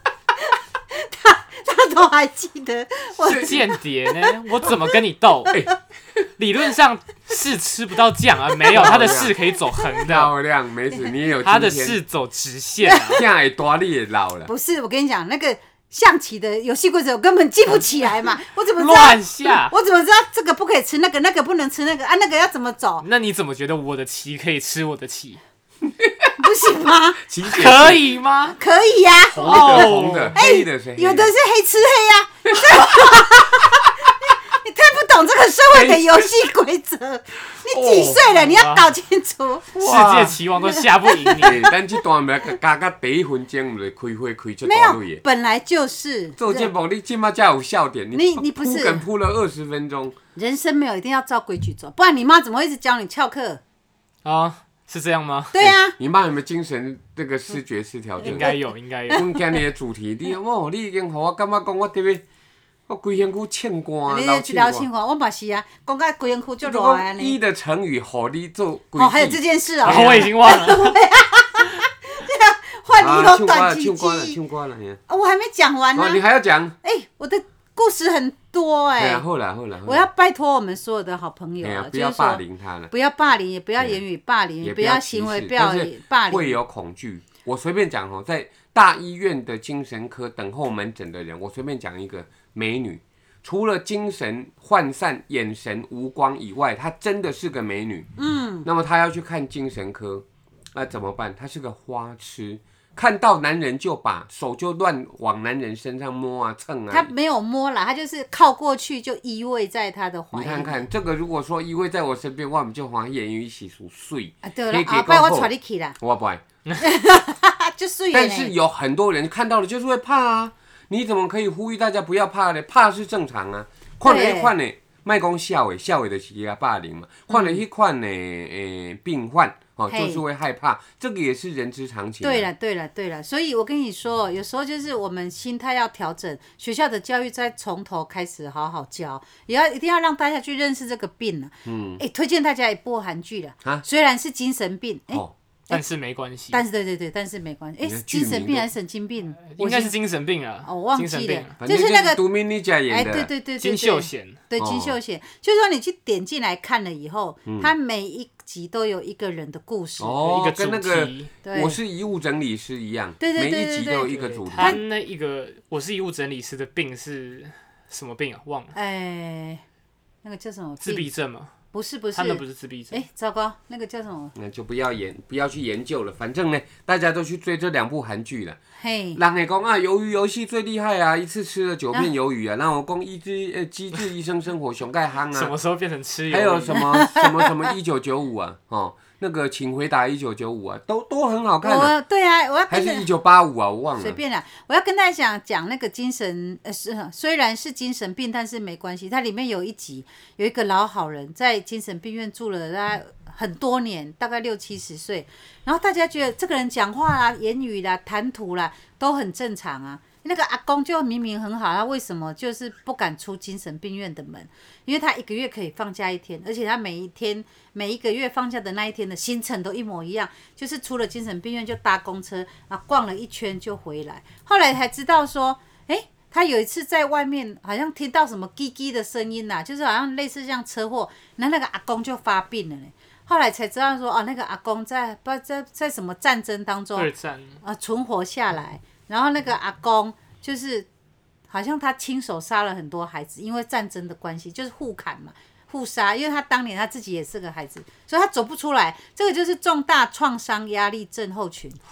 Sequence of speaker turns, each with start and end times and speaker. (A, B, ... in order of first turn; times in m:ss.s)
0:00.4-0:04.3 A
0:03.2-0:03.6 B
0:03.2-0:05.6 C
0:05.5-0:05.8 B
0:06.4-0:10.3 C
0:08.7-0:09.4 B
0:10.0-0:12.0 B
0:11.4-0:13.2 C
0:12.8-0:13.2 A
0:13.1-0:14.5 B
0:14.5-0:23.0 A
0:18.8-0:19.7 C
0:23.0-0:25.4 C
0:26.0-0:26.3 B
0:26.4-0:27.2 A
0:27.2-0:28.0 B
0:27.4-0:28.6 C
0:28.5-0:39.7 A
0:29.3-0:30.4 C
0:29.3-0:31.3 B
0:32.5-0:33.0 B
0:35.7-0:36.3 B
0:37.6-0:38.3 B
0:38.4-0:38.9 C
0:39.7-0:40.4 B
0:39.8-0:41.7 C
0:40.6-0:41.7 A
0:41.4-0:45.2 B
0:44.6-0:46.7 A
0:46.4-0:50.2 B
0:48.1-0:49.1 A
0:50.4-0:53.6 A
0:54.2-0:55.7 C
0:55.5-0:56.0 A
0:55.6-0:58.6 B
0:58.2-0:59.3 C
0:58.2-0:58.6 A
0:59.1-1:02.2 B
0:59.1-0:59.4 A
1:02.9-1:04.9 B
1:04.1-1:07.4 A
1:06.6-1:10.3 B
1:09.0-1:14.4 A
1:09.8-1:11.0 C
1:13.0-1:15.0 B
1:15.1-1:16.2 A
1:16.0-1:16.8 B
1:16.8-1:19.2 A
1:19.0-1:20.1 B
1:19.9-1:26.6 A
1:21.6-1:22.9 B
1:24.6-1:38.1 B
1:38.2-1:38.7 A
1:38.6-1:47.1 B
1:46.9-1:50.9 A
1:50.3-1:56.4 B
1:54.4-1:56.0 A
1:56.8-1:58.5 A
1:58.1-2:12.5 B
2:04.0-2:04.6 A
2:07.3-2:07.6 A
2:09.9-2:10.2 A
2:12.2-2:25.9 A
2:21.6-2:22.0 B
2:25.7-2:26.6 C
2:26.5-2:30.0 A
2:27.8-2:28.7 B
2:29.5-2:31.6 C
2:30.6-2:32.2 A
2:31.6-2:33.3 B
2:32.9-2:40.2 A
2:33.6-2:34.4 C
2:34.6-2:35.0 B
2:37.5-2:37.7 B
2:40.0-2:44.8 B
2:40.2-2:41.3 C
2:41.4-2:41.8 A
2:43.2-2:44.8 A
2:44.1-2:48.8 C
2:48.7-2:49.6 A
2:50.2-2:51.1 A
2:50.8-2:51.5 C
2:51.7-2:54.4 A
2:52.2-2:53.0 C
2:54.4-2:58.6 B
2:58.8-2:59.2 A
2:59.2-3:05.5 B
3:05.3-3:06.8 C
3:06.3-3:12.0 B
3:06.8-3:07.3 A
3:11.6-3:13.1 A
3:12.7-3:14.2 B
3:14.0-3:57.1 A
3:57.0-3:57.6 C
3:57.6-4:00.9 A
4:01.5-4:11.8 A